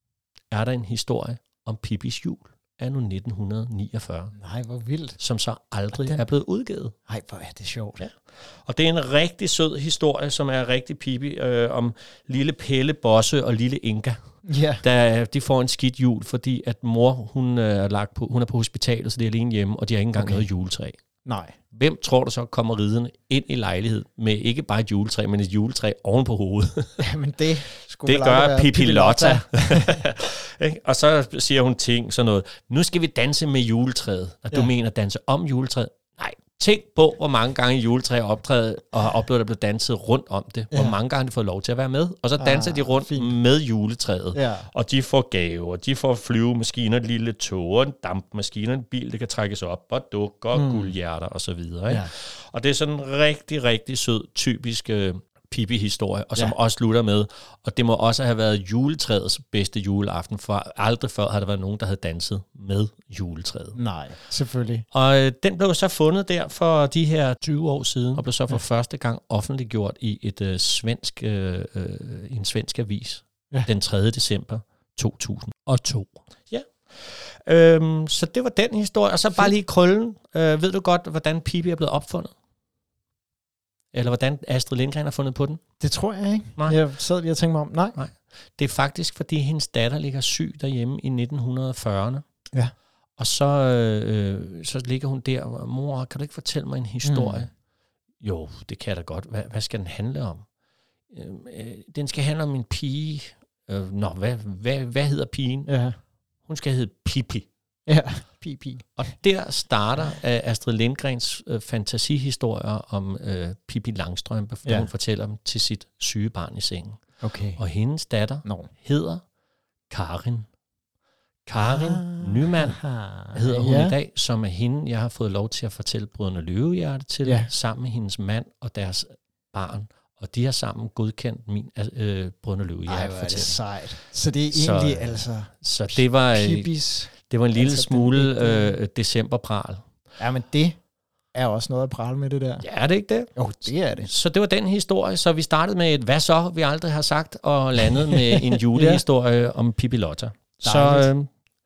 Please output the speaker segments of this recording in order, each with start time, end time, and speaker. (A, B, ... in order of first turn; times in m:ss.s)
0:00.5-0:04.4 A
0:04.4-0:05.2 B
0:05.2-0:07.0 A
0:05.9-0:06.3 B
0:07.1-0:08.0 B
0:08.0-0:14.2 A
0:14.4-0:14.8 B
0:14.8-0:21.0 A
0:20.2-0:20.4 B
0:21.2-0:21.5 B
0:21.7-0:27.0 A
0:27.0-0:30.0 B
0:28.0-1:03.8 A
0:40.7-0:41.0 B
0:42.4-0:43.4 B
0:44.3-0:44.7 B
0:50.5-0:51.0 B
1:03.8-1:04.9 B
1:04.9-1:22.3 A
1:23.9-1:25.6 A
1:25.8-1:28.0 B
1:28.0-1:32.2 A
1:33.2-1:37.5 A
1:37.0-1:37.5 B
1:38.2-1:40.5 A
1:41.1-1:45.7 A
1:45.7-1:46.0 B
1:46.4-1:47.5 A
1:47.9-1:48.9 B
1:49.0-1:59.2 A
1:54.6-1:54.9 B
1:57.2-1:57.6 B
1:58.4-1:58.7 B
1:59.9-2:00.5 A
2:01.5-2:02.8 A
2:01.6-2:04.0 B
2:03.3-2:13.6 A
2:07.2-2:07.5 B
2:12.9-2:18.8 B
2:14.5-2:19.8 A
2:20.2-2:20.8 B
2:21.3-2:22.6 B
2:22.6-2:31.3 A
2:23.4-2:24.1 B
2:28.0-2:29.0 B
2:30.6-2:31.1 B